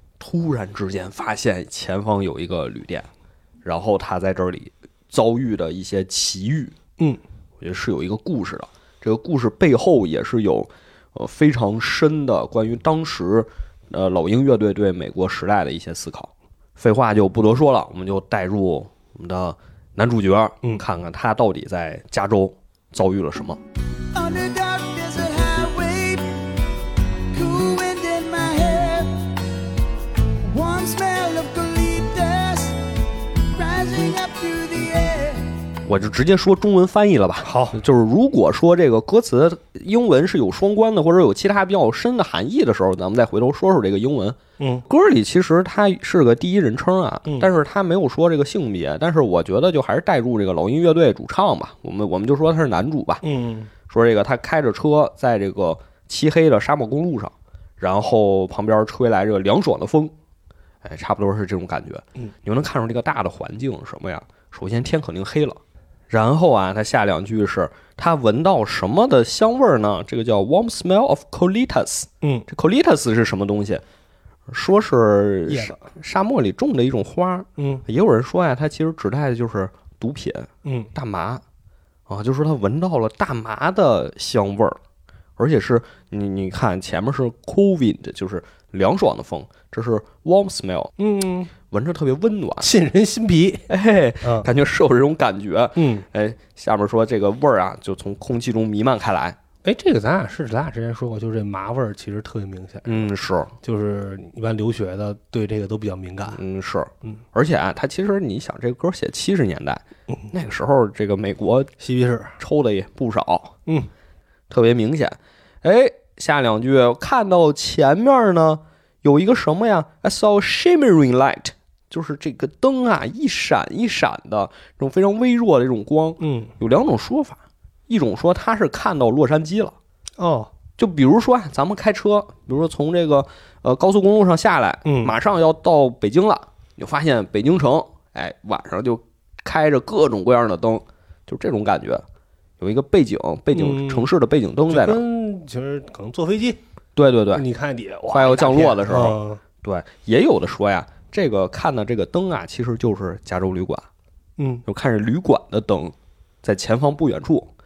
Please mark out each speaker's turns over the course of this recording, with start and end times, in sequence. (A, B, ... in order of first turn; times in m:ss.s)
0:00.2-0:03.1 A
0:03.6-0:06.8 A
0:07.6-0:23.6 A
0:24.1-0:26.5 B
0:27.3-0:29.3 B
0:30.5-0:32.8 B
0:33.5-0:35.5 B
0:35.9-0:53.2 A
0:37.4-0:37.8 C
0:44.6-0:44.8 C
0:53.2-0:53.7 C
0:53.9-1:00.1 A
1:00.8-1:13.8 A
1:14.5-1:21.4 A
1:15.5-1:15.8 C
1:17.6-1:17.8 C
1:20.6-1:20.9 C
1:22.1-1:24.8 A
1:25.4-1:30.9 A
1:31.0-1:31.5 C
1:31.7-1:32.7 A
1:32.6-1:33.7 C
1:33.7-1:39.4 A
1:34.2-1:34.5 C
1:35.8-1:36.0 C
1:39.6-1:46.4 C
1:42.9-1:43.5 A
1:46.3-1:51.7 A
1:51.8-1:52.4 C
1:52.4-1:53.5 A
1:54.5-2:09.8 A
2:06.2-2:06.5 C
2:10.2-2:10.5 C
2:10.8-2:22.0 A
2:14.8-2:15.2 C
2:22.6-2:25.0 A
2:23.5-2:24.1 C
2:24.7-2:26.6 C
2:27.0-2:27.4 A
2:27.3-2:29.4 C
2:28.1-2:33.9 A
2:34.4-2:34.6 C
2:34.7-2:37.5 A